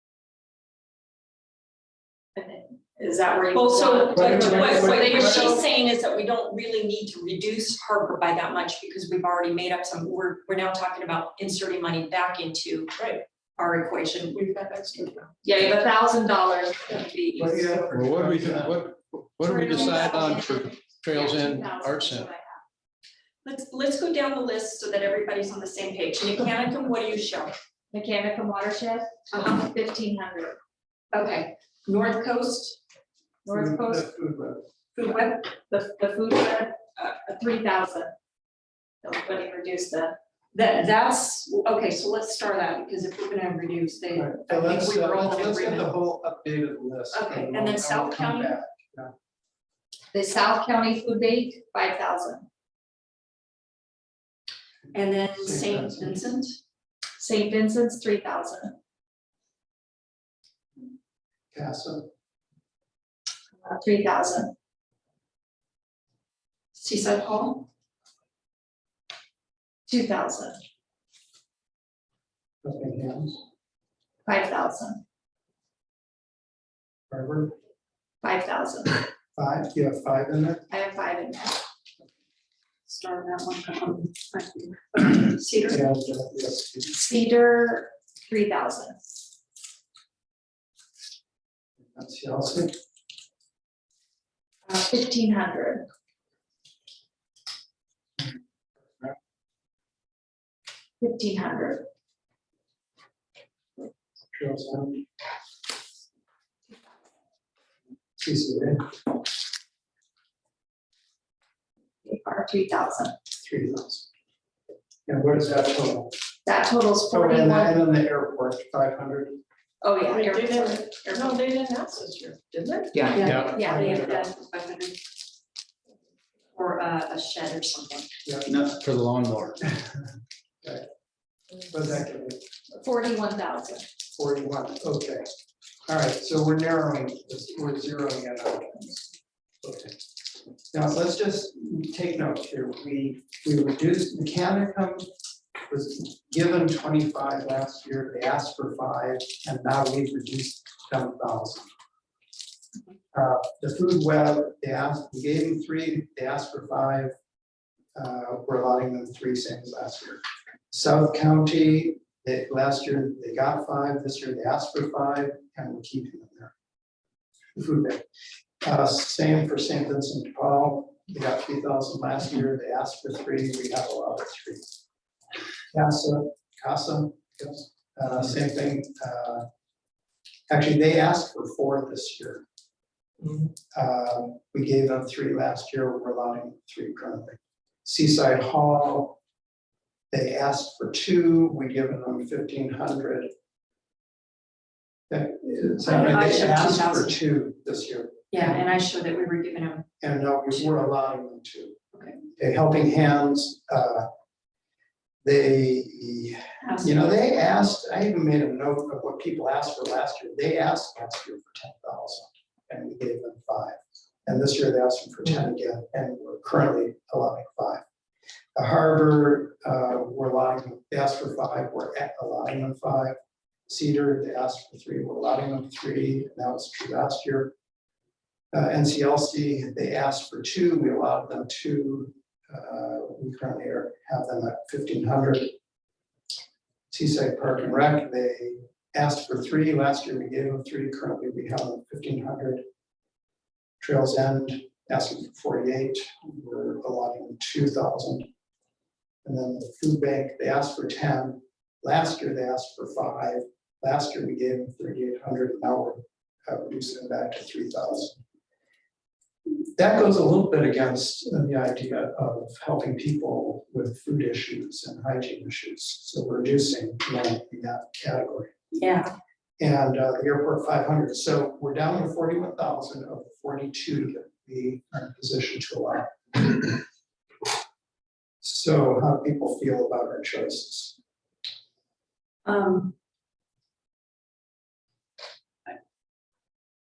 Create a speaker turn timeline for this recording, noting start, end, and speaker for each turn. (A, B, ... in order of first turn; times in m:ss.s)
0:02.4-0:05.6 A
0:03.5-0:12.9 B
0:04.2-0:05.2 C
0:13.0-0:13.2 C
0:13.6-0:14.4 B
0:14.3-0:15.3 C
0:15.4-0:17.7 A
0:17.4-0:18.8 D
0:17.9-0:22.3 E
0:19.4-0:22.6 A
0:23.4-0:27.5 B
0:27.9-0:30.6 A
0:29.3-0:29.6 B
0:31.1-0:32.8 B
0:33.4-0:34.1 A
0:33.5-0:34.6 D
0:34.9-0:35.5 B
0:35.7-0:38.1 A
0:39.0-0:40.1 A
0:40.5-0:45.9 B
0:44.1-0:49.1 D
0:47.1-0:48.5 B
0:50.1-0:52.4 A
0:54.9-0:56.6 B
0:55.3-0:56.1 D
0:57.2-0:58.8 A
1:01.5-1:02.1 D
1:03.6-1:04.5 A
1:06.7-1:07.6 B
1:09.9-1:10.6 A
1:12.6-1:13.4 D
1:14.2-1:15.0 A
1:17.1-1:17.5 D
1:18.2-1:19.0 A
1:19.3-1:20.6 D
1:20.7-1:21.6 A
1:22.8-1:25.8 B
1:25.7-1:27.0 D
1:26.9-1:29.0 A
1:31.8-1:32.7 D
1:34.7-1:35.8 A
1:41.0-1:41.8 A
1:44.3-1:45.0 D
1:48.2-1:48.8 D
1:52.0-1:53.1 A
1:53.4-1:54.1 D
1:55.1-1:56.1 D
1:56.4-1:57.8 A
1:57.1-1:59.4 D
1:59.8-2:01.4 A
2:00.1-2:04.1 C
2:02.9-2:03.9 A
2:03.1-2:05.0 B
2:03.2-2:03.6 E
2:06.5-2:08.1 B
2:08.2-2:08.7 D
2:08.5-2:09.7 E
2:09.6-2:10.0 D
2:11.7-2:12.4 D
2:12.7-2:13.8 A
2:14.1-2:15.2 D
2:15.8-2:19.1 D
2:19.6-2:20.0 D
2:20.7-2:25.1 D
2:25.7-2:31.7 D
2:33.1-2:37.1 D
2:37.9-2:46.5 D
2:47.5-2:48.0 D
2:48.6-2:54.6 D
2:55.7-2:59.4 D
3:00.5-3:02.4 D
3:03.7-3:09.2 D
3:10.1-3:13.3 D
3:15.1-3:18.6 D
3:15.8-3:17.2 B
3:18.3-3:19.8 B
3:20.0-3:21.8 D
3:22.4-3:24.1 D
3:25.2-3:37.8 D
3:26.6-3:27.2 B
3:38.6-3:43.1 D
3:43.7-3:47.5 D
3:48.5-3:55.5 D
3:56.9-4:02.6 D
4:03.8-4:08.3 D
4:09.2-4:18.2 D
4:19.5-4:28.5 D
4:28.7-4:29.1 B
4:29.6-4:36.8 D
4:38.4-4:41.0 D
4:42.4-4:42.9 B